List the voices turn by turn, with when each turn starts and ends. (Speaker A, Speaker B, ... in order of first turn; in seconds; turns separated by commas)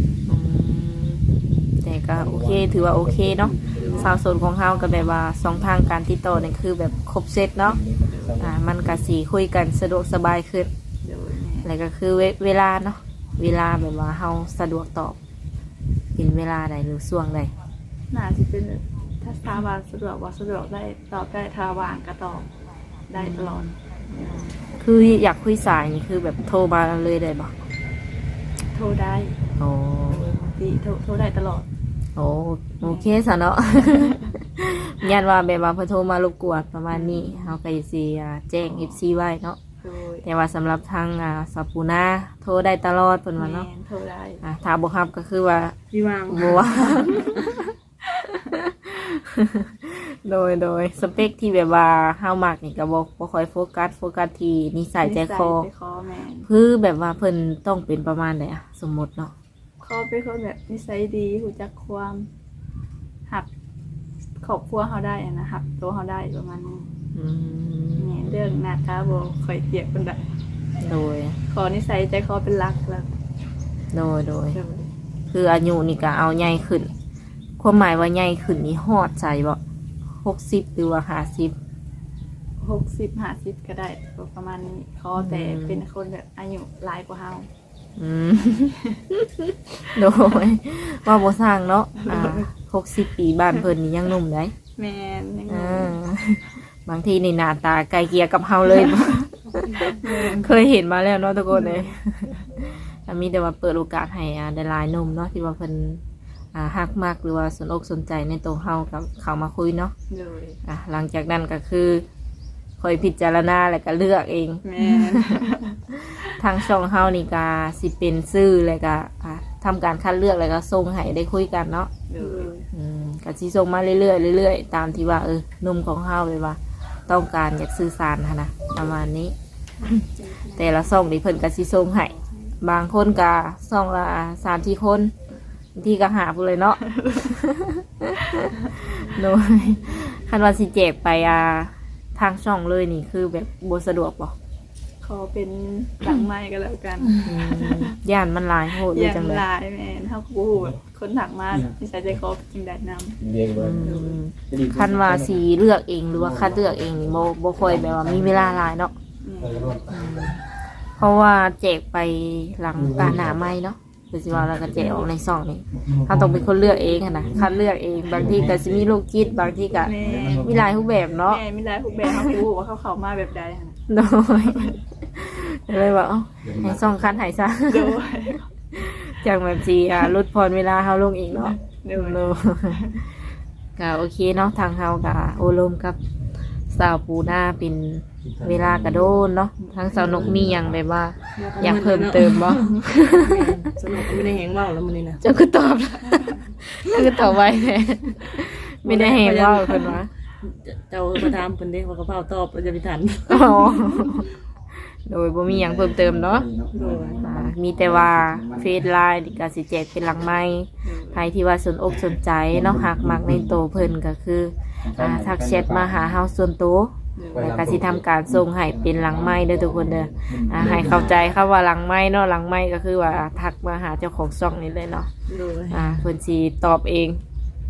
Speaker A: 0.3-7.8, Speaker B: 2.1-4.2, Speaker C: 3.7-4.1, Speaker B: 7.8-8.8, Speaker A: 8.3-10.7, Speaker C: 11.0-11.7, Speaker A: 11.6-15.2, Speaker A: 16.1-17.5, Speaker C: 18.1-22.5, Speaker C: 23.1-24.6, Speaker A: 23.2-23.7, Speaker A: 24.8-27.5, Speaker C: 28.7-29.4, Speaker A: 29.6-30.3, Speaker C: 30.1-31.7, Speaker A: 32.1-39.6, Speaker C: 32.8-33.2, Speaker C: 33.7-34.2, Speaker C: 36.9-37.5, Speaker C: 39.8-40.2, Speaker A: 40.2-43.7, Speaker C: 43.4-44.4, Speaker A: 44.4-45.8, Speaker D: 45.9-47.0, Speaker A: 46.3-55.7, Speaker C: 55.0-56.5, Speaker A: 56.5-59.3, Speaker C: 59.8-62.3, Speaker C: 64.4-66.9, Speaker A: 67.1-68.2, Speaker C: 68.0-70.3, Speaker A: 70.8-71.3, Speaker C: 71.5-73.1, Speaker A: 73.9-74.6, Speaker C: 74.5-74.9, Speaker A: 75.3-76.9, Speaker A: 77.6-79.6, Speaker A: 80.2-81.5, Speaker C: 82.6-87.5, Speaker A: 85.2-85.8, Speaker A: 88.0-94.5, Speaker C: 88.5-89.0, Speaker C: 92.0-92.5, Speaker C: 94.8-96.0, Speaker A: 95.5-106.0, Speaker C: 99.8-100.6, Speaker A: 106.5-109.9, Speaker C: 110.1-110.6, Speaker A: 110.7-112.0, Speaker A: 112.8-115.3, Speaker C: 114.6-115.8, Speaker A: 115.9-135.1, Speaker C: 122.1-122.7, Speaker C: 130.0-130.8, Speaker A: 135.8-144.3, Speaker C: 145.0-147.9, Speaker A: 147.2-149.4, Speaker C: 148.9-153.2, Speaker B: 153.2-155.4, Speaker A: 153.5-158.9, Speaker C: 153.8-154.1, Speaker B: 156.2-158.6, Speaker C: 159.2-159.7, Speaker B: 159.4-160.3, Speaker A: 159.9-160.4, Speaker A: 161.0-171.4, Speaker B: 162.8-163.5, Speaker B: 164.4-165.1, Speaker B: 165.8-167.5, Speaker B: 168.1-170.9, Speaker C: 169.8-170.6, Speaker C: 171.2-173.8, Speaker A: 173.9-178.0, Speaker C: 174.4-174.7, Speaker B: 176.4-177.1, Speaker C: 177.7-178.4, Speaker A: 178.7-182.8, Speaker C: 181.7-183.0, Speaker A: 183.8-186.0, Speaker A: 186.7-193.6, Speaker B: 188.2-189.2, Speaker C: 189.6-190.3, Speaker D: 189.9-190.2, Speaker B: 190.0-190.8, Speaker D: 191.3-195.2, Speaker B: 193.9-194.3, Speaker A: 195.2-200.1, Speaker D: 198.8-203.7, Speaker A: 203.3-206.5, Speaker B: 205.5-208.8, Speaker D: 206.7-207.2, Speaker A: 207.2-225.1, Speaker C: 210.8-211.3, Speaker B: 212.1-213.8, Speaker B: 214.8-216.0, Speaker C: 217.2-217.4, Speaker B: 217.3-221.2, Speaker D: 225.3-225.9, Speaker A: 225.7-227.2